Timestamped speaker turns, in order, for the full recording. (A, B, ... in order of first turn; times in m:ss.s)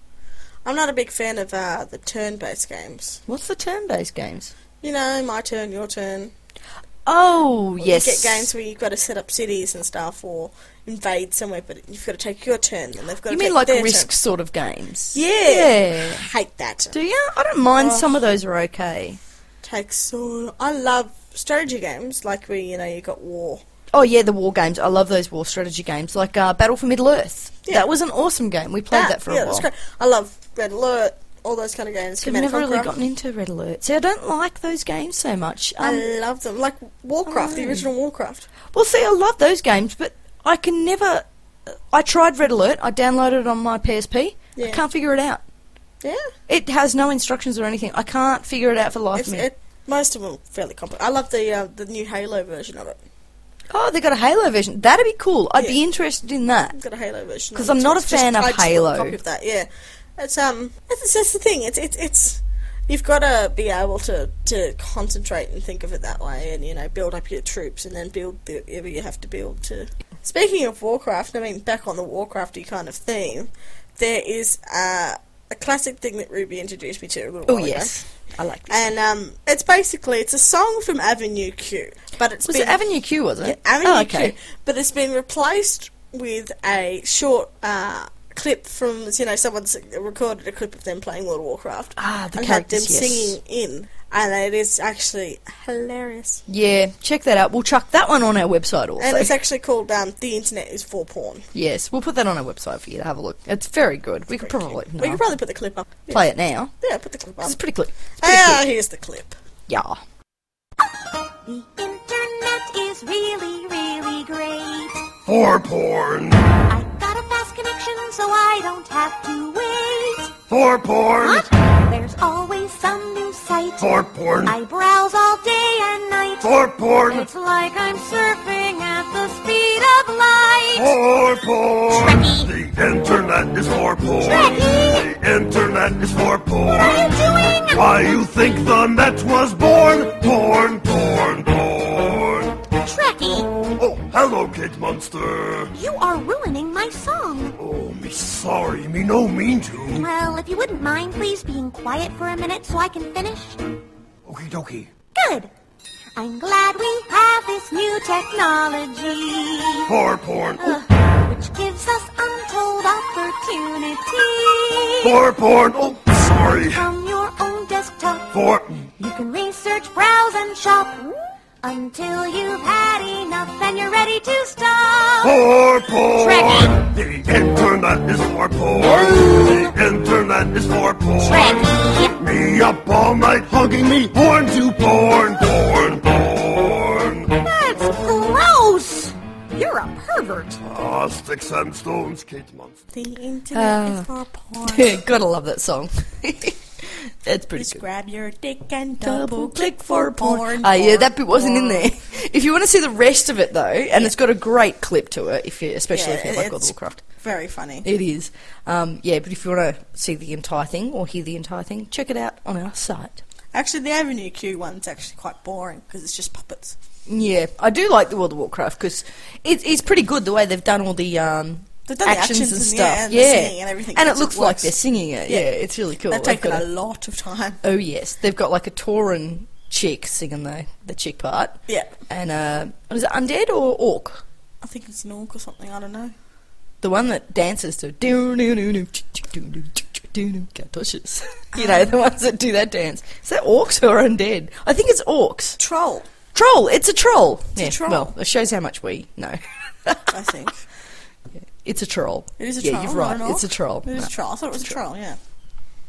0:00.6-0:03.2 A
0:03.3-0:04.5 B
0:04.8-0:06.3 A
0:07.1-0:08.5 B
0:07.8-0:14.1 A
0:13.3-0:16.3 B
0:15.1-0:17.0 A
0:16.9-0:19.2 B
0:17.8-0:18.2 A
0:19.6-0:23.6 A
0:23.9-0:29.7 B
0:28.9-0:33.0 A
0:32.2-0:36.1 B
0:35.8-0:38.5 A
0:37.3-0:37.9 B
0:38.7-0:45.4 B
0:44.6-0:44.8 A
0:46.0-0:46.3 A
0:46.5-0:49.5 B
0:49.2-0:53.0 A
0:53.7-0:56.8 B
0:56.7-1:18.0 A
0:57.6-0:59.2 B
1:17.5-1:19.0 B
1:18.7-1:22.8 A
1:22.4-1:24.4 B
1:23.4-1:36.4 A
1:32.0-1:33.4 B
1:36.5-1:39.4 B
1:39.0-1:41.5 A
1:41.5-1:45.3 B
1:44.4-1:46.2 A
1:46.1-1:46.7 B
1:46.8-1:47.6 A
1:47.4-1:48.7 B
1:48.2-1:49.4 A
1:49.7-1:50.0 B
1:51.4-1:55.1 C
1:55.3-1:56.4 D
1:56.7-2:00.4 C
2:00.5-2:01.5 D
2:01.2-2:11.0 C
2:03.8-2:04.6 D
2:06.4-2:07.3 D
2:10.8-2:22.6 D
2:11.9-2:12.5 C
2:14.2-2:15.1 C
2:16.6-2:18.3 C
2:22.8-2:23.5 C
2:23.8-2:25.7 D
2:25.7-2:27.6 C
2:27.6-2:30.1 D
2:29.9-2:33.6 C
2:34.3-2:34.9 D
2:35.1-2:35.5 C
2:36.2-2:39.9 C
2:39.9-2:40.8 D
2:40.6-2:45.3 C
2:45.0-2:46.9 D
2:46.1-2:48.4 C
2:48.3-2:48.9 D
2:49.0-2:51.1 C
2:51.6-2:56.9 C
2:55.2-3:07.4 D
2:58.8-2:59.7 C
3:01.2-3:02.2 C
3:07.3-3:10.6 C
3:10.6-3:12.8 D
3:12.9-3:15.0 A
3:13.5-3:14.1 B
3:14.6-3:17.8 B
3:17.6-3:21.9 A
3:19.0-3:27.0 B
3:25.9-3:27.9 A
3:27.8-3:33.2 B
3:33.5-3:36.8 A
3:37.1-3:46.7 B
3:41.9-3:45.5 A
3:46.1-3:47.6 A
3:47.6-3:54.2 B
3:54.6-3:56.1 A
3:56.8-4:05.6 B
4:01.6-4:01.8 A
4:05.6-4:06.1 A
4:06.3-4:10.1 B
4:07.6-4:08.1 A
4:10.1-4:10.6 A
4:11.6-4:14.1 B
4:12.4-4:15.2 A